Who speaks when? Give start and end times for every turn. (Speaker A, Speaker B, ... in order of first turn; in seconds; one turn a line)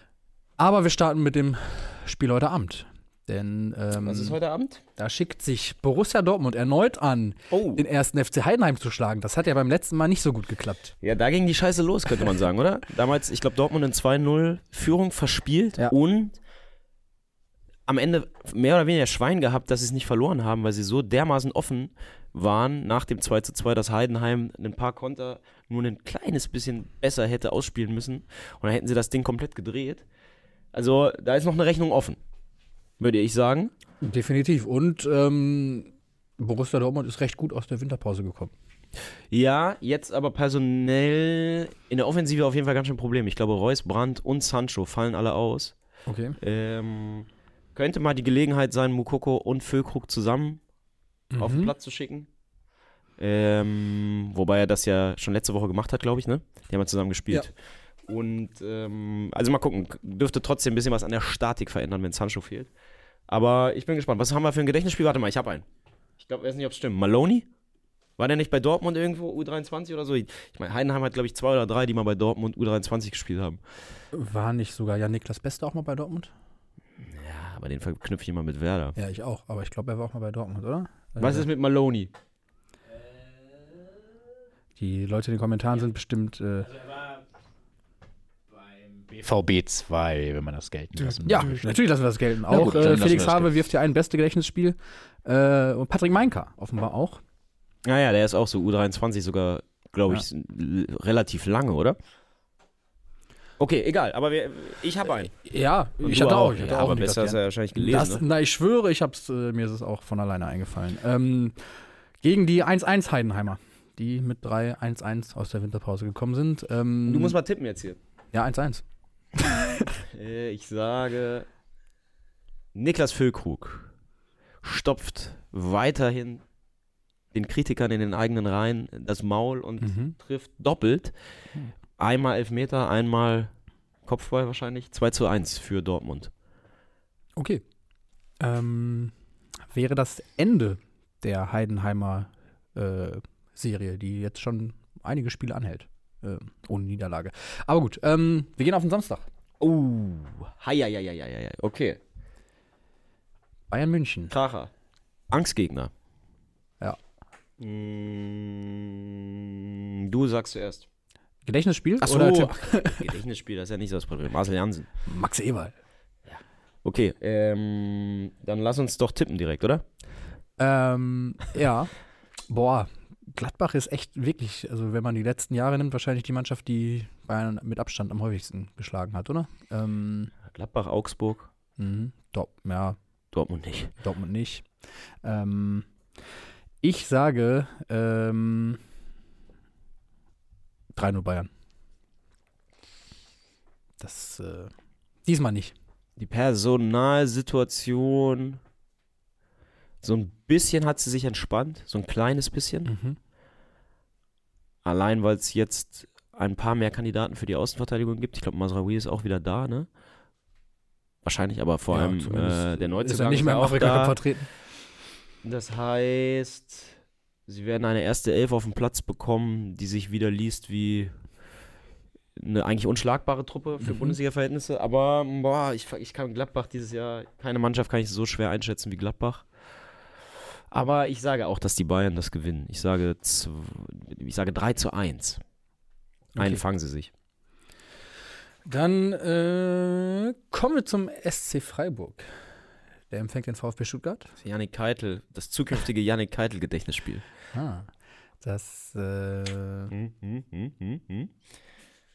Speaker A: 0.6-4.4
Speaker B: 4.0-4.8
Speaker A: 5.0-10.9
Speaker B: 7.5-7.8
Speaker B: 11.0-16.4
Speaker B: 17.9-30.0
Speaker B: 30.7-32.2
Speaker B: 33.0-33.7
Speaker A: 34.0-38.5
Speaker B: 39.3-45.7
Speaker A: 46.1-46.4
Speaker B: 46.4-50.6
Speaker A: 51.3-51.7
Speaker B: 51.4-52.3
Speaker B: 53.2-57.5
Speaker B: 58.1-62.7
Speaker B: 63.3-65.6
Speaker B: 66.2-67.5
Speaker B: 68.2-73.6
Speaker A: 74.1-76.3
Speaker B: 77.0-79.0
Speaker A: 79.0-81.5
Speaker B: 81.2-82.1
Speaker A: 84.8-86.7
Speaker C: 88.5-91.8
Speaker A: 91.2-97.2
Speaker C: 92.5-93.5
Speaker B: 97.8-102.0
Speaker B: 103.6-105.3
Speaker A: 105.4-111.6
Speaker B: 106.0-108.2
Speaker A: 112.2-117.3
Speaker B: 117.0-118.0
Speaker A: 118.3-118.8
Speaker A: 119.4-119.9
Speaker B: 120.0-121.5
Speaker B: 122.7-123.9
Speaker B: 124.6-126.4
Speaker B: 127.3-131.1
Speaker A: 129.8-130.1
Speaker B: 132.0-133.5
Speaker B: 134.1-136.3
Speaker A: 137.3-137.6
Speaker A: 138.4-139.1
Speaker A: 139.7-149.2
Speaker B: 149.6-152.0
Speaker A: 153.7-154.3
Speaker B: 154.3-154.7
Speaker B: 155.3-155.9
Speaker B: 157.6-160.8
Speaker A: 161.4-163.0
Speaker B: 162.0-164.9
Speaker A: 165.1-165.7
Speaker B: 166.3-169.8
Speaker A: 170.6-171.9
Speaker A: 172.5-180.3
Speaker B: 180.5-181.5
Speaker A: 181.8-183.0
Speaker B: 183.3-183.9
Speaker A: 184.0-184.7
Speaker A: 185.2-185.9
Speaker A: 186.8-188.8
Speaker A: 190.9-191.5
Speaker A: 194.0-194.7
Speaker A: 195.2-195.7
Speaker B: 196.2-198.6
Speaker B: 200.0-202.9
Speaker A: 202.8-203.2
Speaker B: 204.8-209.9
Speaker B: 211.2-214.2
Speaker A: 211.9-214.5
Speaker B: 215.4-216.9
Speaker B: 217.5-221.1
Speaker B: 222.4-229.4
Speaker A: 223.8-224.2
Speaker B: 230.7-235.4
Speaker A: 236.3-236.6
Speaker B: 236.4-237.1
Speaker A: 238.6-242.3
Speaker A: 243.1-244.3
Speaker B: 244.4-247.2
Speaker A: 247.5-247.9
Speaker A: 248.4-249.9
Speaker B: 249.9-251.3